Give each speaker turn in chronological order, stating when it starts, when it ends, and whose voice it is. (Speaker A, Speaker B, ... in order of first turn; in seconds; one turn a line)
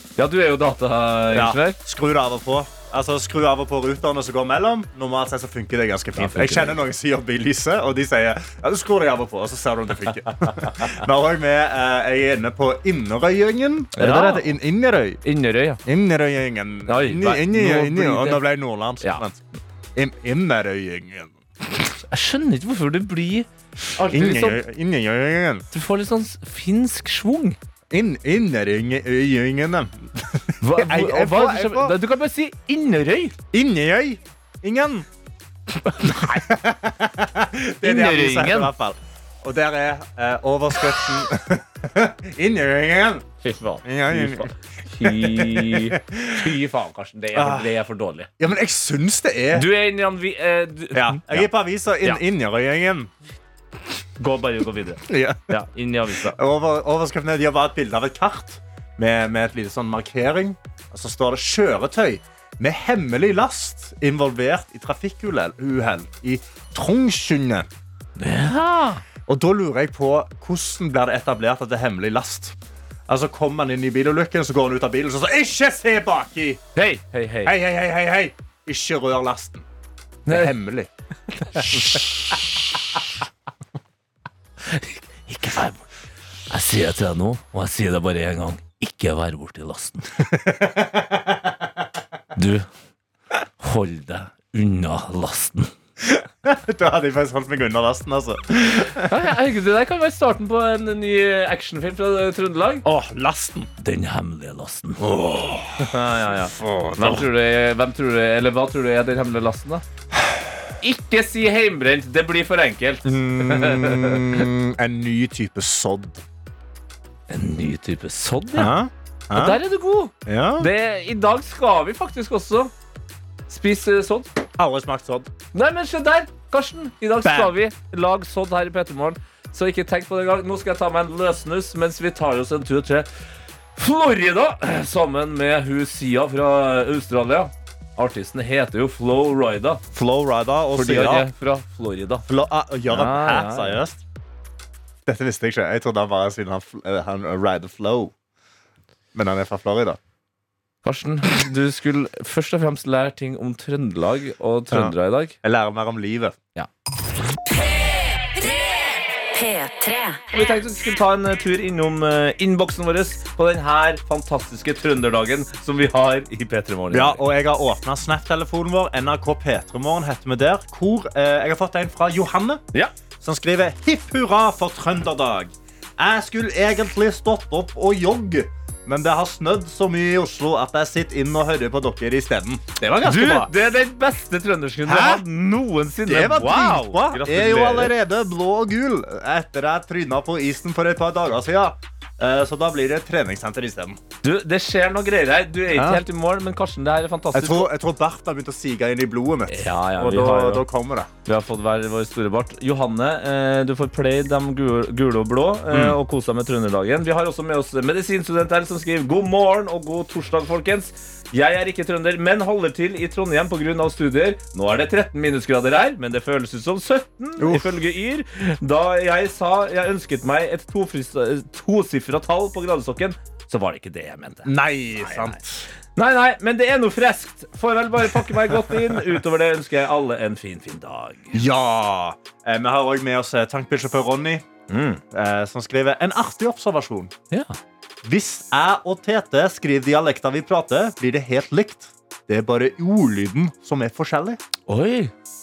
Speaker A: 0.2-1.8
Speaker B: 1.3-15.2
Speaker A: 6.2-6.8
Speaker A: 10.4-10.9
Speaker A: 13.9-14.5
Speaker A: 15.2-15.8
Speaker B: 15.8-19.4
Speaker A: 16.9-18.4
Speaker B: 19.9-21.3
Speaker A: 22.1-24.6
Speaker B: 24.1-25.6
Speaker A: 25.7-27.6
Speaker B: 27.9-31.9
Speaker A: 30.6-33.3
Speaker B: 33.5-35.0
Speaker A: 35.8-36.5
Speaker B: 36.3-43.3
Speaker A: 37.8-38.7
Speaker A: 43.4-48.3
Speaker B: 43.8-46.5
Speaker B: 47.3-47.7
Speaker B: 48.4-49.7
Speaker A: 49.5-51.5
Speaker B: 50.9-53.1
Speaker A: 54.2-56.4
Speaker B: 55.1-55.5
Speaker B: 56.3-67.7
Speaker A: 68.2-69.0
Speaker B: 69.2-72.5
Speaker B: 73.1-76.6
Speaker A: 76.8-77.5
Speaker B: 77.4-79.6
Speaker A: 80.3-80.5
Speaker B: 80.3-82.1
Speaker A: 81.7-82.0
Speaker A: 84.7-85.8
Speaker A: 86.5-90.2
Speaker B: 90.3-91.3
Speaker A: 92.3-92.7
Speaker A: 93.6-95.7
Speaker B: 96.0-99.1
Speaker A: 99.1-102.8
Speaker B: 102.8-103.7
Speaker A: 103.8-105.1
Speaker B: 105.0-107.2
Speaker A: 105.8-109.8
Speaker A: 110.8-114.5
Speaker B: 113.0-116.2
Speaker A: 117.3-118.7
Speaker B: 118.5-119.6
Speaker A: 119.3-122.7
Speaker B: 120.2-120.7
Speaker A: 123.5-124.3
Speaker B: 124.6-125.3
Speaker A: 125.5-133.1
Speaker B: 127.2-127.5
Speaker A: 133.8-139.8
Speaker B: 139.9-141.3
Speaker A: 140.7-142.2
Speaker B: 142.3-144.0
Speaker A: 142.9-143.8
Speaker B: 145.1-148.1
Speaker B: 149.1-150.0
Speaker A: 150.8-155.3
Speaker B: 154.7-156.4
Speaker C: 157.5-160.3
Speaker A: 160.3-167.2
Speaker B: 166.9-172.6
Speaker B: 173.2-183.5
Speaker A: 183.0-187.9
Speaker B: 184.9-185.2
Speaker B: 186.1-194.0
Speaker A: 194.2-197.7
Speaker B: 195.7-196.0
Speaker B: 197.3-201.1
Speaker A: 199.5-200.6
Speaker A: 201.2-225.4
Speaker B: 205.7-206.0
Speaker B: 217.4-217.8
Speaker B: 224.4-225.6
Speaker A: 225.9-231.4
Speaker B: 228.5-228.8
Speaker B: 231.3-234.4
Speaker A: 234.7-235.0
Speaker B: 235.1-237.1
Speaker A: 237.3-237.6
Speaker B: 238.0-244.4
Speaker A: 244.7-245.1